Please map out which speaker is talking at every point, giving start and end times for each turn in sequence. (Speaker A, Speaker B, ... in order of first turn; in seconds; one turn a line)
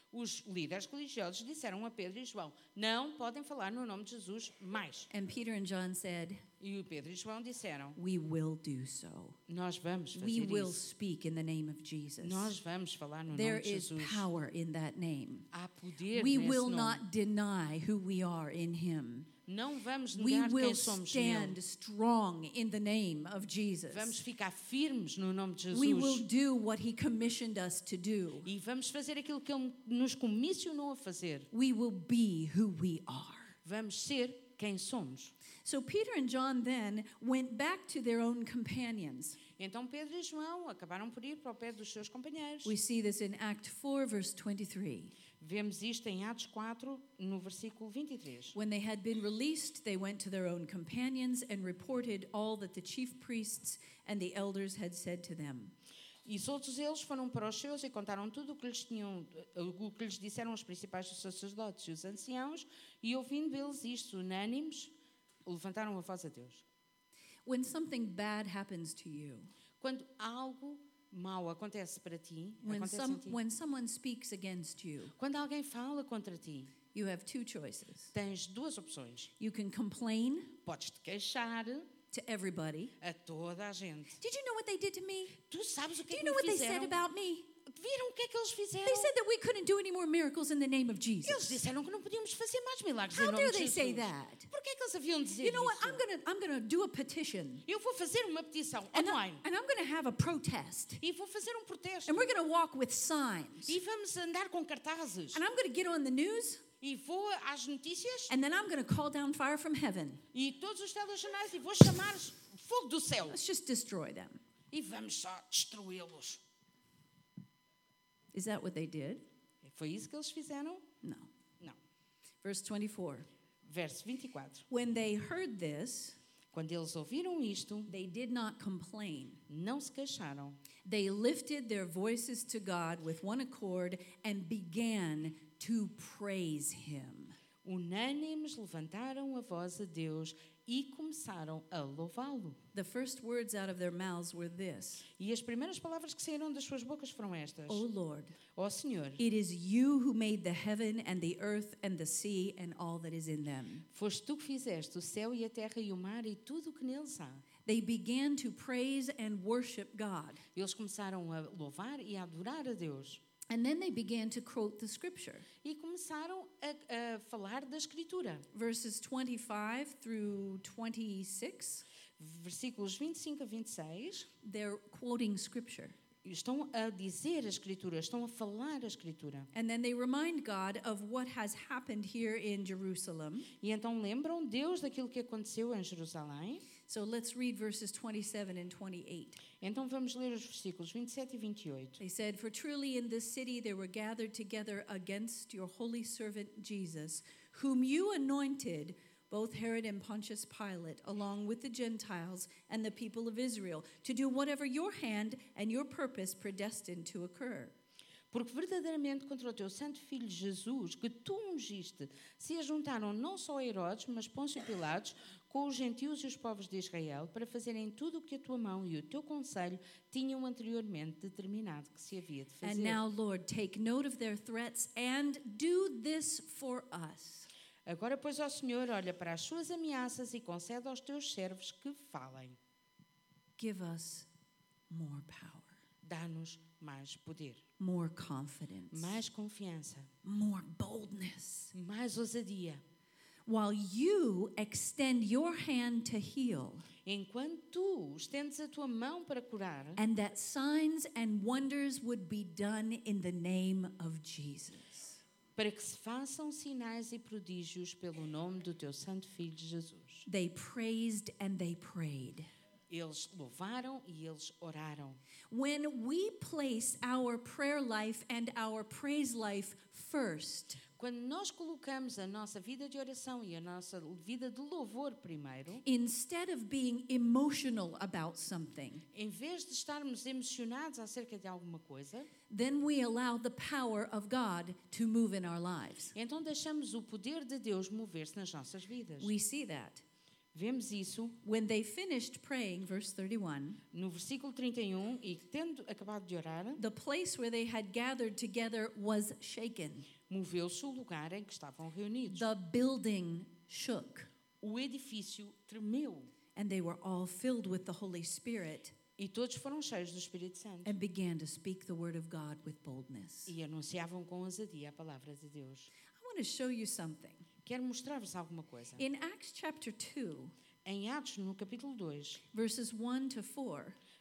Speaker A: 0.1-5.1
Speaker B: 5.1-6.4
Speaker A: 6.6-8.0
Speaker B: 8.0-9.4
Speaker A: 9.5-10.8
Speaker B: 10.1-12.5
Speaker A: 12.2-14.3
Speaker B: 13.3-15.5
Speaker A: 15.5-17.0
Speaker B: 16.1-19.3
Speaker A: 19.5-21.6
Speaker B: 20.1-24.2
Speaker A: 23.9-26.2
Speaker B: 25.7-28.5
Speaker A: 28.4-31.5
Speaker B: 31.5-33.6
Speaker A: 33.6-35.3
Speaker B: 35.6-39.4
Speaker A: 39.6-42.8
Speaker B: 42.6-45.1
Speaker A: 45.4-48.5
Speaker B: 48.5-55.7
Speaker A: 56.2-64.9
Speaker A: 65.5-66.6
Speaker B: 67.5-69.5
Speaker A: 69.8-73.4
Speaker B: 72.6-75.1
Speaker A: 75.2-76.7
Speaker B: 76.9-78.1
Speaker A: 78.1-79.3
Speaker B: 79.4-80.6
Speaker A: 80.6-81.9
Speaker B: 82.1-82.9
Speaker A: 83.0-84.2
Speaker B: 84.2-85.4
Speaker A: 85.4-87.0
Speaker B: 86.1-87.5
Speaker A: 87.7-89.1
Speaker B: 88.8-91.6
Speaker A: 91.2-96.0
Speaker B: 93.1-94.5
Speaker B: 95.4-97.7
Speaker A: 97.7-99.4
Speaker B: 98.9-101.0
Speaker A: 101.0-102.3
Speaker B: 102.1-103.8
Speaker A: 103.7-105.4
Speaker B: 105.3-106.6
Speaker A: 106.8-108.4
Speaker B: 108.3-110.2
Speaker A: 110.3-113.4
Speaker B: 113.3-114.4
Speaker A: 114.7-116.4
Speaker B: 118.3-119.2
Speaker A: 119.6-120.9
Speaker B: 121.0-121.3
Speaker B: 122.4-123.3
Speaker A: 123.7-124.7
Speaker B: 124.7-126.2
Speaker A: 126.5-127.9
Speaker B: 127.9-129.4
Speaker A: 129.5-130.6
Speaker B: 130.8-137.4
Speaker A: 137.6-142.6
Speaker B: 142.7-145.1
Speaker A: 145.2-147.8
Speaker B: 147.7-148.4
Speaker A: 148.5-149.2
Speaker B: 149.2-153.9
Speaker A: 153.9-157.4
Speaker B: 157.7-160.4
Speaker A: 160.6-163.2
Speaker B: 163.5-165.5
Speaker A: 165.6-168.5
Speaker B: 168.5-171.8
Speaker A: 172.2-174.3
Speaker B: 174.4-176.0
Speaker A: 176.2-179.5
Speaker B: 179.5-183.5
Speaker A: 183.6-186.6
Speaker B: 186.9-189.4
Speaker A: 189.6-192.0
Speaker B: 192.0-207.7
Speaker A: 208.3-223.0
Speaker B: 222.6-227.5
Speaker A: 227.8-232.6
Speaker B: 233.6-234.3
Speaker B: 234.9-235.8
Speaker A: 236.0-237.6
Speaker B: 237.8-239.2
Speaker A: 238.9-240.1
Speaker B: 240.2-241.7
Speaker A: 241.7-242.8
Speaker B: 243.5-246.9
Speaker A: 247.1-250.0
Speaker B: 250.0-255.2
Speaker A: 255.6-260.3
Speaker B: 260.3-262.5
Speaker A: 262.9-265.2
Speaker B: 265.5-270.8
Speaker A: 271.0-275.8
Speaker B: 275.9-279.1
Speaker A: 279.1-282.3
Speaker B: 282.5-286.1
Speaker A: 286.1-289.3
Speaker B: 289.2-290.0
Speaker A: 290.5-291.4
Speaker B: 291.4-293.8
Speaker A: 293.9-296.8
Speaker B: 296.8-300.1
Speaker A: 300.3-302.5
Speaker B: 302.3-304.3
Speaker A: 304.6-306.3
Speaker B: 306.6-308.9
Speaker A: 309.2-310.9
Speaker B: 310.9-313.5
Speaker A: 313.5-315.9
Speaker B: 316.1-317.5
Speaker A: 317.6-319.0
Speaker B: 319.0-320.5
Speaker A: 320.9-322.4
Speaker B: 322.5-324.0